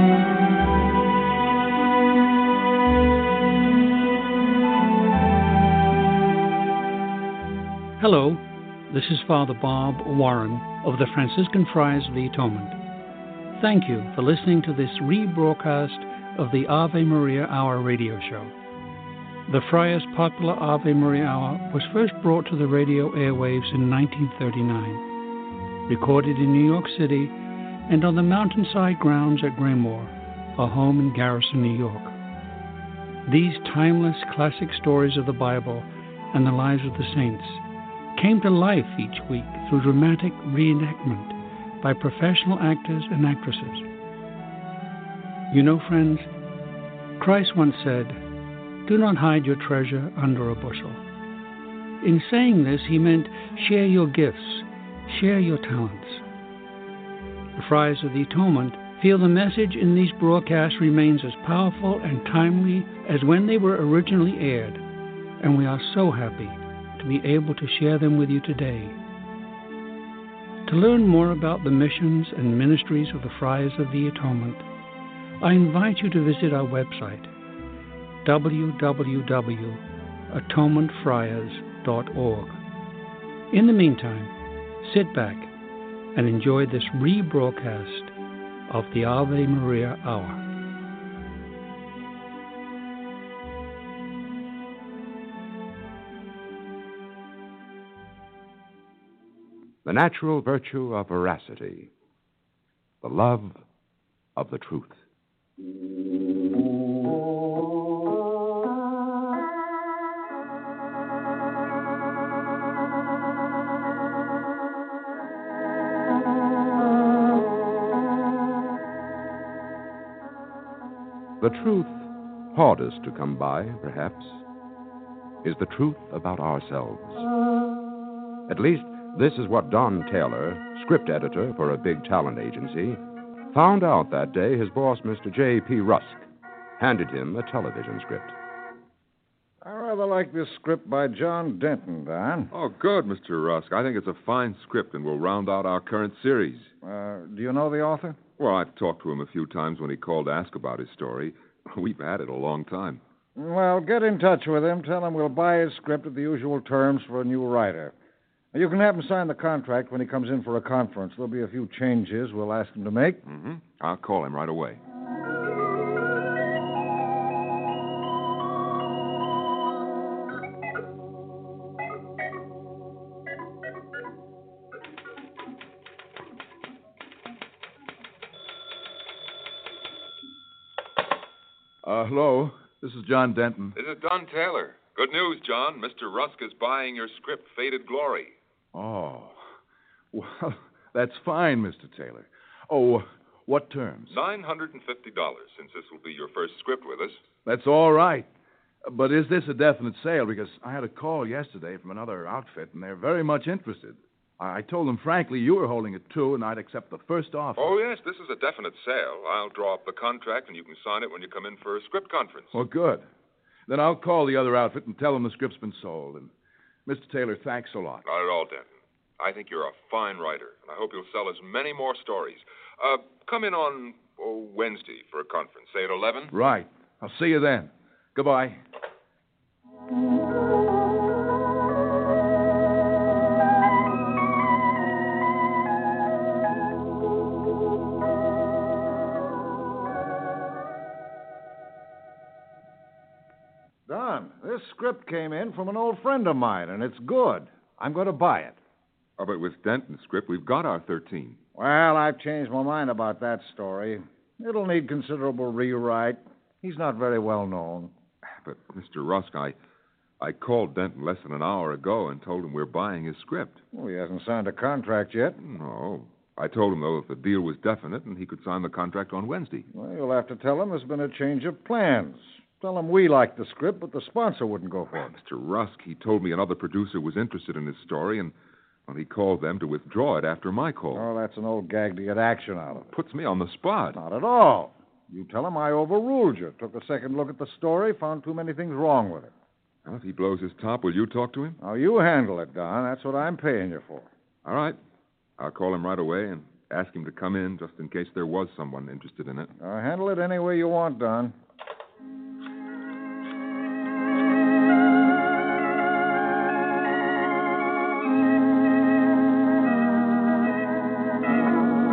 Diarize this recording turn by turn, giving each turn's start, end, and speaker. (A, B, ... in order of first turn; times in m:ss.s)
0:08.0-0:12.8 A
0:13.6-0:18.5 A
0:19.5-0:25.0 A
0:25.9-0:27.4 A
0:27.9-0:32.2 A
0:33.2-0:37.6 A
0:38.2-0:43.8 A
0:45.5-0:46.3 A
0:47.2-0:48.2 A
0:48.8-0:51.0 A
0:52.0-0:56.2 A
0:57.5-1:04.8 A
1:05.4-1:09.0 A
1:10.7-1:14.6 A
1:15.4-1:17.3 A
1:18.2-1:22.6 A
1:23.5-1:25.5 A
1:26.1-1:28.1 A
1:28.7-1:30.4 A
1:39.8-1:41.9 B
1:43.0-1:43.6 B
1:44.4-1:45.0 B
2:01.4-2:04.4 B
2:05.4-2:07.3 B
2:08.5-2:16.3 B
2:16.8-2:18.3 B
2:19.6-2:22.5 C
2:22.5-2:26.7 D
2:26.8-2:28.2 C
2:28.4-2:33.0 D
2:33.4-2:37.9 C
2:38.5-2:43.2 C
2:43.2-2:44.8 D
3:01.8-3:03.8 E
3:03.7-3:08.3 D
3:08.7-3:09.4 E
3:10.1-3:14.2 E
3:14.1-3:17.2 D
3:17.4-3:18.3 E
3:18.8-3:27.7 E
3:27.6-3:32.5 D
3:32.5-3:33.0 E
3:33.7-3:36.3 E
3:36.8-3:38.0 E
3:38.0-3:46.3 D
3:46.3-3:48.6 E
4:03.9-4:08.6 C
4:09.2-4:11.4 D
4:11.5-4:17.9 C
4:18.3-4:19.6 D
4:20.2-4:23.6 D
4:23.7-4:25.4 C
4:25.4-4:29.7 D
4:29.7-4:35.1 C
4:35.1-4:38.3 D
4:38.9-4:41.1 D
4:40.9-4:42.9 C
4:42.9-4:44.0 D
4:43.9-4:49.3 C
4:49.8-4:51.6 D
4:51.6-4:54.1 C
4:54.4-4:54.8 D
4:55.4-4:59.5 D
4:59.6-5:01.3 C